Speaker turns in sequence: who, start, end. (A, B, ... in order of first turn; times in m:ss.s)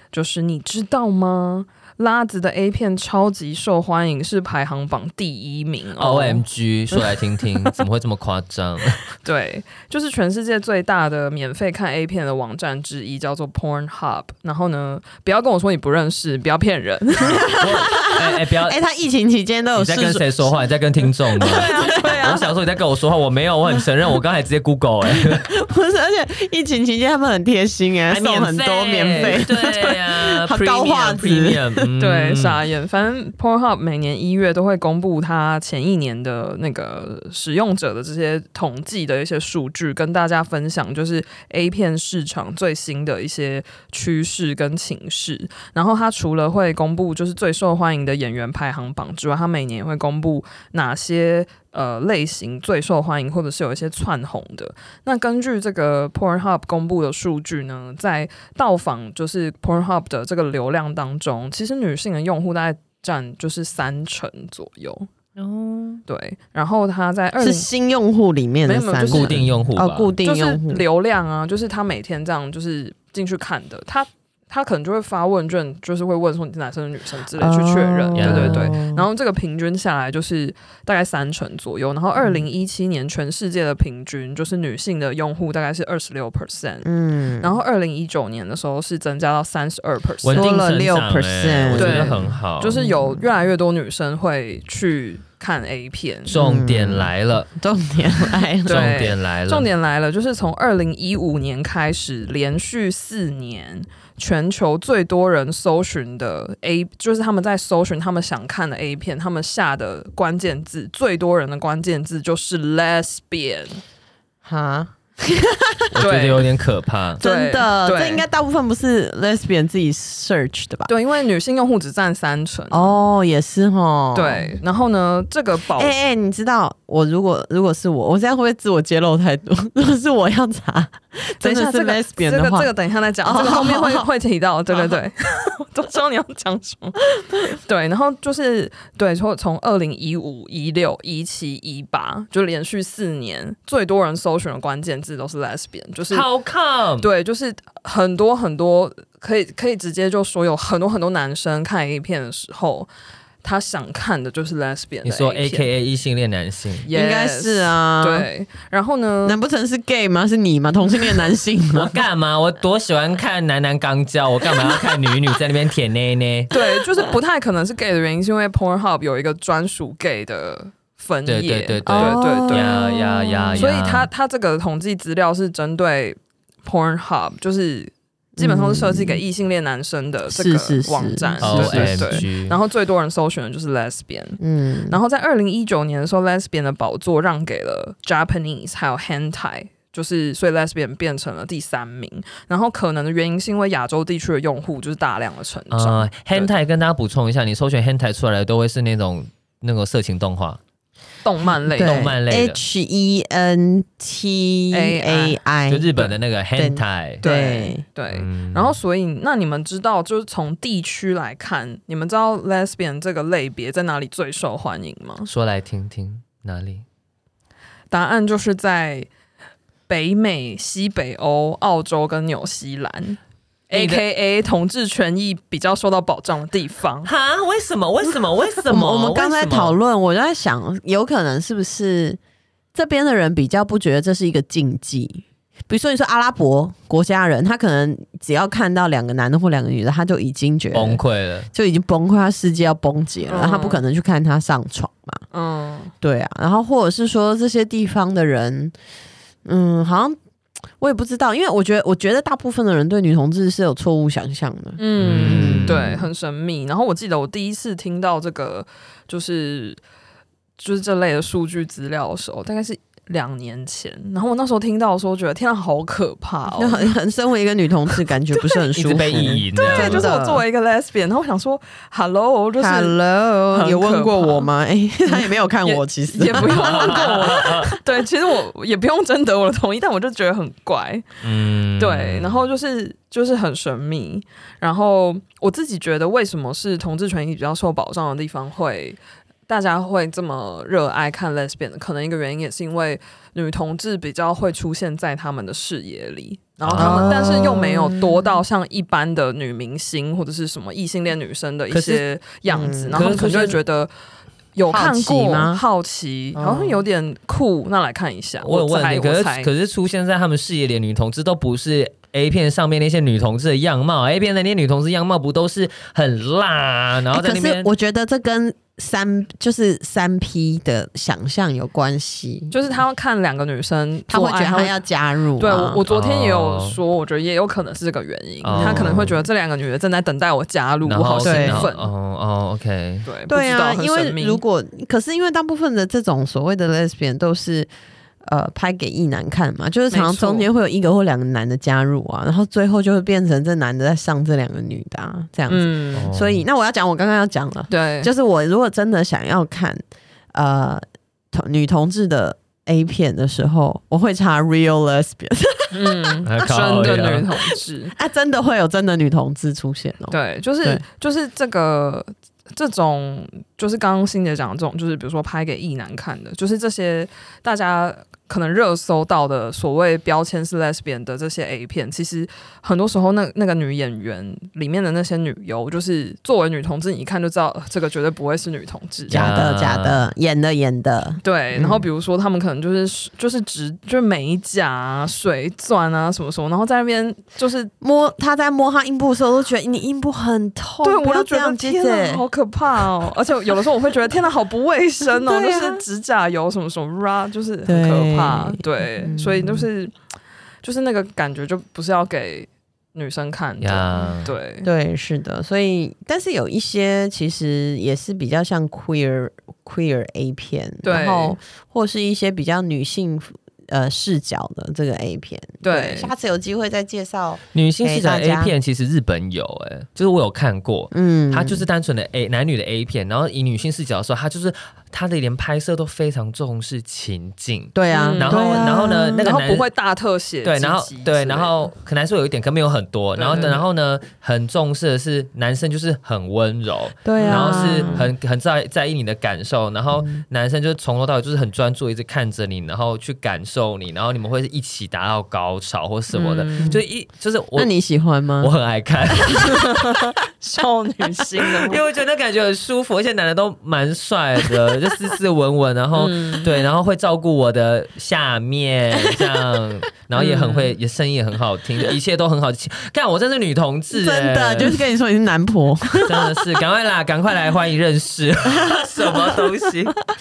0:00.1-0:07.8 A
0:06.0-0:09.0 B
0:09.2-0:17.6 A
0:17.2-0:18.8 B
0:17.2-0:20.6 C
0:19.8-0:25.5 B
0:21.4-0:22.5 A
0:21.4-0:22.4 C
0:25.1-0:31.9 C
0:28.1-0:32.6 B
0:29.1-0:29.4 A
0:32.0-1:05.1 A
1:05.4-1:06.0 B
1:06.1-1:07.7 A
1:07.4-1:10.8 C
1:08.7-1:09.5 A
1:09.1-1:10.1 B
1:10.2-1:26.9 A
1:17.4-1:19.1 C
1:18.2-1:18.8 B
1:26.8-1:27.5 C
1:27.4-1:30.6 A
1:30.2-1:32.8 B
1:30.3-1:32.3 C
1:31.8-1:36.3 A
1:32.8-1:33.2 C
1:36.3-1:37.5 B
1:36.4-1:39.0 C
1:38.7-1:39.7 B
1:38.7-1:53.8 A
1:54.4-1:55.9 C
1:55.9-1:57.2 B
1:56.0-1:56.5 A
1:57.2-2:00.9 C
1:57.2-1:58.2 A
2:00.9-2:03.0 A
2:02.7-2:04.6 C
2:04.1-2:05.9 A
2:05.7-2:12.7 C
2:11.4-2:26.3 A
2:13.2-2:14.1 C
2:14.7-2:15.0 C
2:26.1-2:27.1 B
2:27.0-2:32.9 A
2:33.4-2:35.7 A
2:35.0-2:36.9 B
2:36.9-2:39.4 A
2:36.9-2:38.3 C
2:39.2-2:42.0 C
2:41.7-2:46.5 B
2:46.5-2:52.8 A
2:51.3-2:54.1 B
2:51.9-2:53.7 C
2:53.6-3:16.5 A
2:58.4-2:59.2 C
3:00.3-3:02.3 C
3:01.4-3:02.6 B
3:04.4-3:05.0 C
3:15.7-3:20.6 B
3:21.2-3:22.1 A
3:21.7-3:26.0 C
3:21.8-3:22.6 B
3:24.7-3:25.4 A
3:25.7-3:27.2 B
3:26.6-3:27.8 C
3:27.2-3:35.3 A
3:28.1-3:28.8 B
3:35.2-3:36.8 B
3:37.9-3:39.1 A
3:39.9-3:47.1 A
3:43.7-3:44.0 B
3:47.0-3:49.8 B
3:48.6-3:52.2 C
3:52.7-4:01.0 C
4:00.7-4:01.5 B
4:01.5-4:05.2 C
4:03.3-4:03.8 A
4:05.3-4:05.9 A
4:06.0-4:08.7 C
4:09.4-4:10.2 C
4:10.8-4:16.1 C
4:14.8-4:19.8 A
4:15.0-4:16.0 B
4:20.6-4:27.0 A
4:26.6-4:30.4 C
4:27.9-4:28.6 A
4:28.7-4:30.1 B
4:29.6-4:33.0 A
4:32.6-4:37.5 C
4:33.5-4:34.5 A
4:35.0-4:41.2 A
4:36.3-4:37.8 B
4:41.2-4:42.4 B
4:41.8-5:03.9 A
4:56.6-4:57.2 B
4:56.8-4:58.4 C
5:01.7-5:02.0 B
5:02.5-5:03.2 C
5:02.9-5:03.6 B
5:04.6-5:09.5 A
5:04.7-5:05.6 C
5:06.4-5:06.8 C
5:08.4-5:17.7 B
5:17.1-5:22.6 C
5:22.5-5:24.8 A
5:24.1-5:25.8 C
5:25.4-5:31.9 A
5:25.9-5:26.8 B
5:28.4-5:29.2 B
5:28.5-5:29.2 C
5:30.8-5:33.1 B
5:31.2-5:31.7 C
5:33.0-5:34.4 A
5:33.3-5:37.7 C
5:38.2-5:56.2 C
5:39.9-5:40.5 A
5:45.5-5:46.1 A
5:45.9-5:46.4 B
5:47.7-5:48.1 A
5:55.7-5:57.9 A
5:56.2-5:57.3 B
5:57.5-6:00.8 C
6:00.1-6:19.2 A
6:19.1-6:21.8 C
6:19.1-6:20.0 B
6:21.2-6:27.7 A
6:27.8-6:32.3 C
6:30.8-6:39.9 A
6:35.1-6:35.8 C
6:37.7-6:39.7 C
6:40.6-6:44.7 A
6:43.6-6:44.3 B
6:44.6-6:58.5 C
6:50.8-6:51.4 A
6:55.6-6:56.1 A
6:57.5-7:09.7 B
7:00.9-7:01.7 C
7:07.8-7:09.3 C
7:07.9-7:11.7 A
7:10.4-7:27.7 B
7:13.2-7:13.6 A
7:17.0-7:18.1 C
7:17.2-7:18.0 A
7:26.1-7:26.8 A
7:27.6-7:28.5 C
7:28.4-7:29.7 B
7:29.3-7:31.8 A
7:31.4-7:44.8 B
7:36.0-7:36.5 A
7:40.2-7:40.7 A
7:43.9-7:46.4 C
7:46.0-7:50.0 B